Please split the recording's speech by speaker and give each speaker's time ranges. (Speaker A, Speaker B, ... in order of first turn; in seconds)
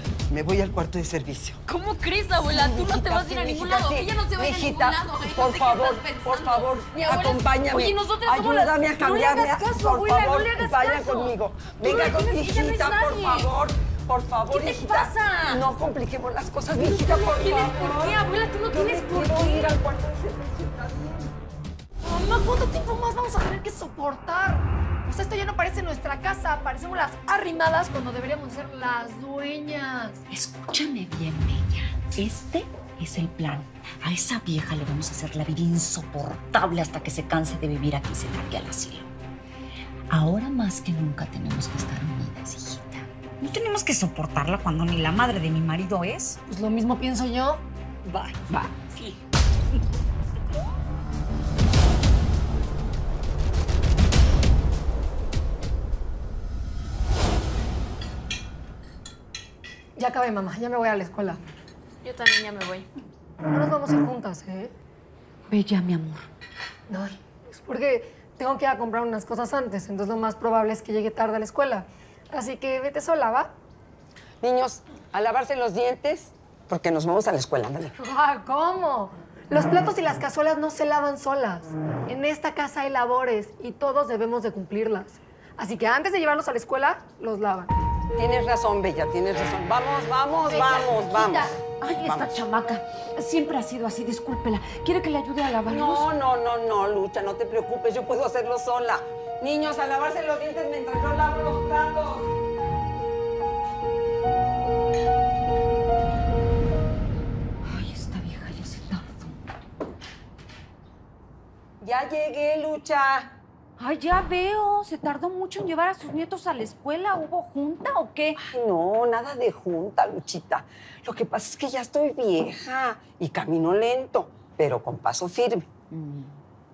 Speaker A: 0.3-1.6, 2.4-21.3, 48.5-49.2, 74.4-77.9, 88.1-92.4, 95.7-102.3, 111.8-113.3, 118.5-125.7
Speaker B: 1.7-13.5, 14.5-15.6, 16.8-19.8, 62.0-62.9
Speaker C: 22.0-30.2, 46.5-47.6, 60.0-61.4, 63.5-64.7, 66.9-73.5, 78.0-87.7
Speaker D: 30.3-39.1, 40.1-46.4, 65.5-66.3, 90.5-96.1, 107.7-109.3, 113.8-118.4, 125.9-126.3